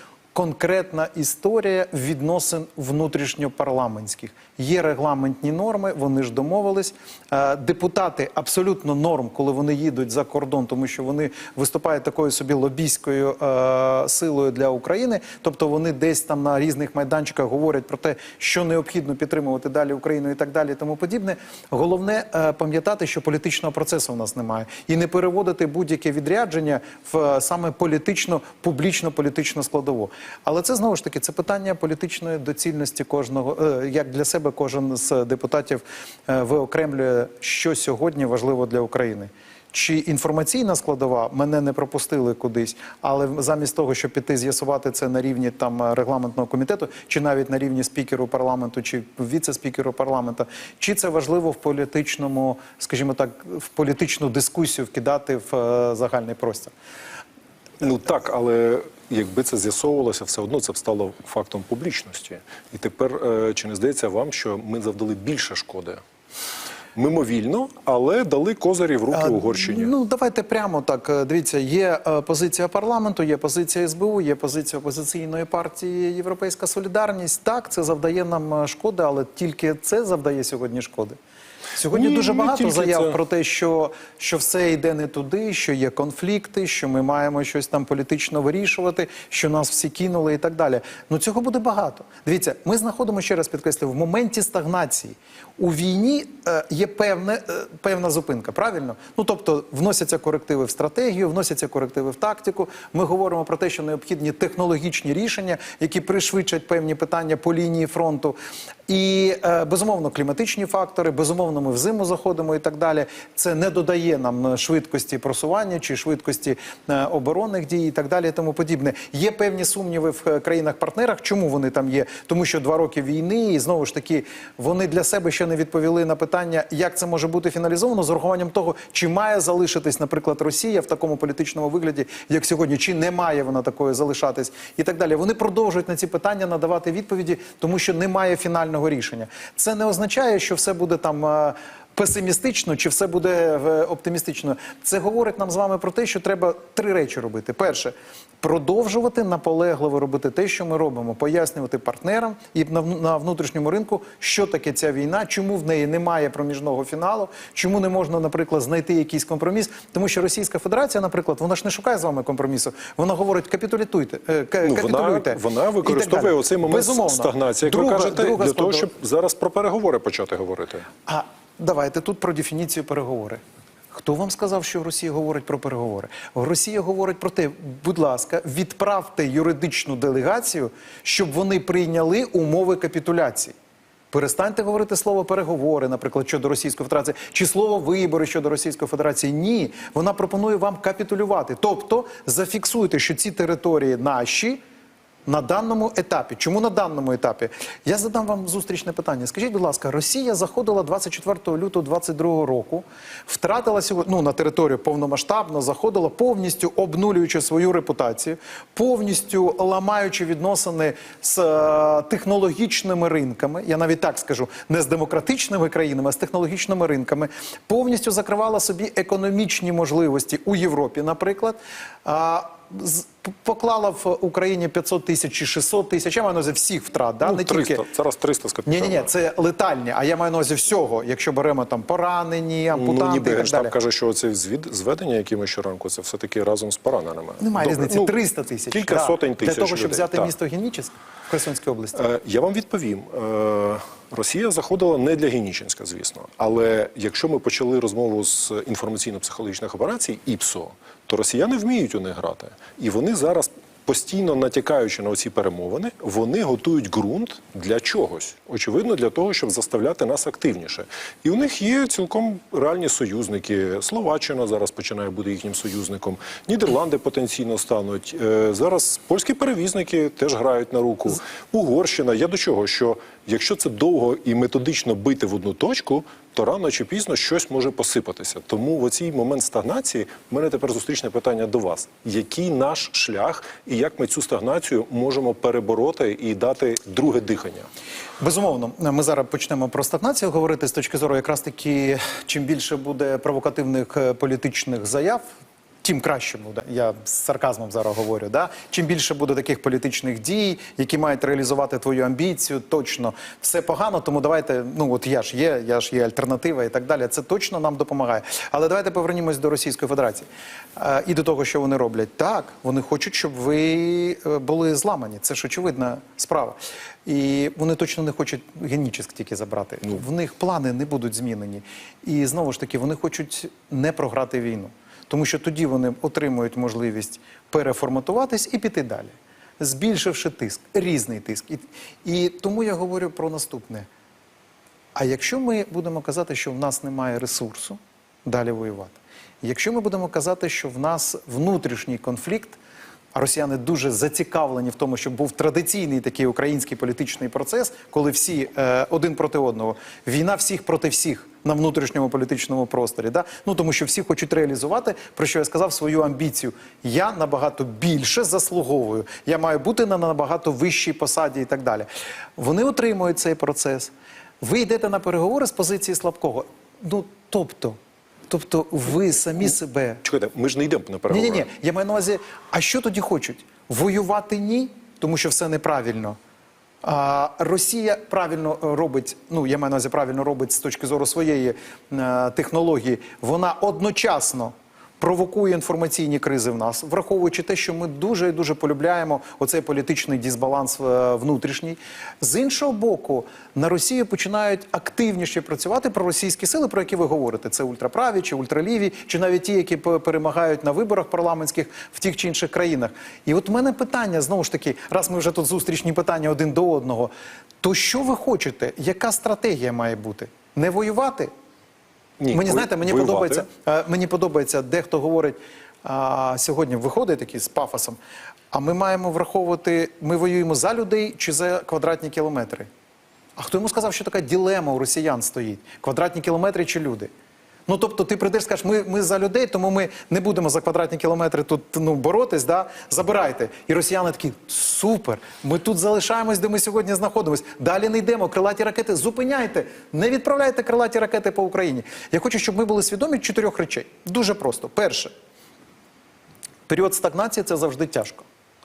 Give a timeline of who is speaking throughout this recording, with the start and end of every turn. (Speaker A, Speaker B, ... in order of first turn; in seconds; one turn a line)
Speaker A: 0.3-56.7
Speaker B: 57.8-66.0
Speaker B: 67.0-69.9
Speaker A: 69.1-81.2
Speaker A: 81.7-108.3
Speaker B: 81.9-83.2
Speaker A: 108.9-168.9
Speaker B: 164.6-170.9
Speaker A: 171.1-173.4
Speaker A: 173.9-183.5
Speaker A: 184.1-194.6
Speaker A: 195.3-227.8
Speaker B: 227.2-229.1
Speaker A: 228.7-233.8
Speaker B: 232.7-238.1
Speaker A: 237.4-242.1
Speaker B: 238.7-240.3
Speaker B: 241.9-287.7
Speaker A: 288.2-295.2
Speaker A: 295.8-333.9
Speaker A: 334.9-342.6
Speaker A: 343.1-370.0
Speaker B: 370.0-371.4
Speaker A: 371.1-376.2
Speaker A: 376.8-411.3
Speaker B: 412.2-413.4
Speaker A: 412.3-418.0
Speaker A: 418.5-422.7
Speaker A: 423.4-427.1
Speaker A: 427.7-445.1
Speaker A: 446.7-448.2